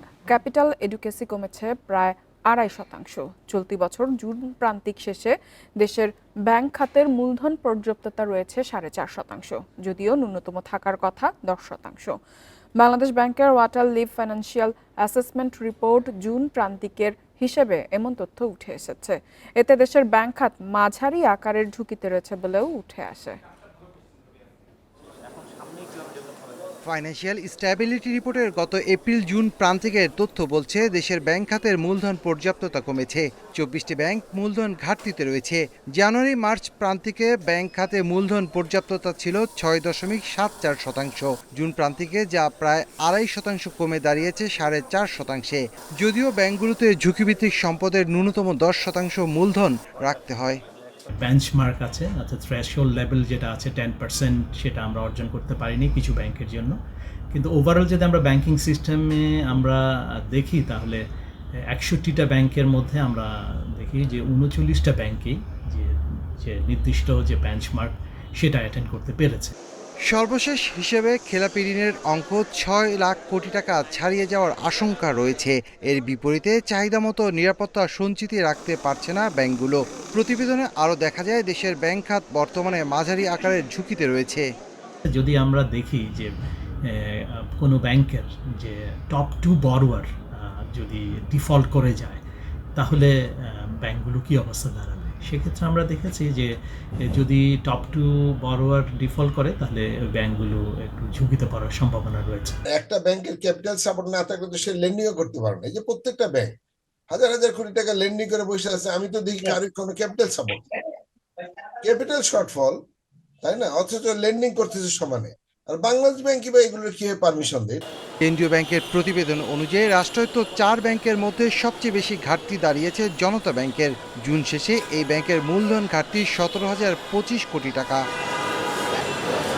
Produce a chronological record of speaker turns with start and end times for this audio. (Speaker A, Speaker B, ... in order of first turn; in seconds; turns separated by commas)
Speaker A: 0.3-12.2, Speaker A: 12.8-23.4, Speaker B: 26.9-50.6, Speaker C: 51.2-56.8, Speaker C: 57.3-61.0, Speaker C: 61.7-69.5, Speaker B: 70.0-84.5, Speaker C: 85.1-86.3, Speaker C: 86.8-92.2, Speaker C: 92.8-96.5, Speaker C: 97.0-102.6, Speaker D: 102.7-106.5, Speaker D: 107.1-110.8, Speaker D: 111.8-112.8, Speaker D: 113.4-117.8, Speaker B: 118.2-128.0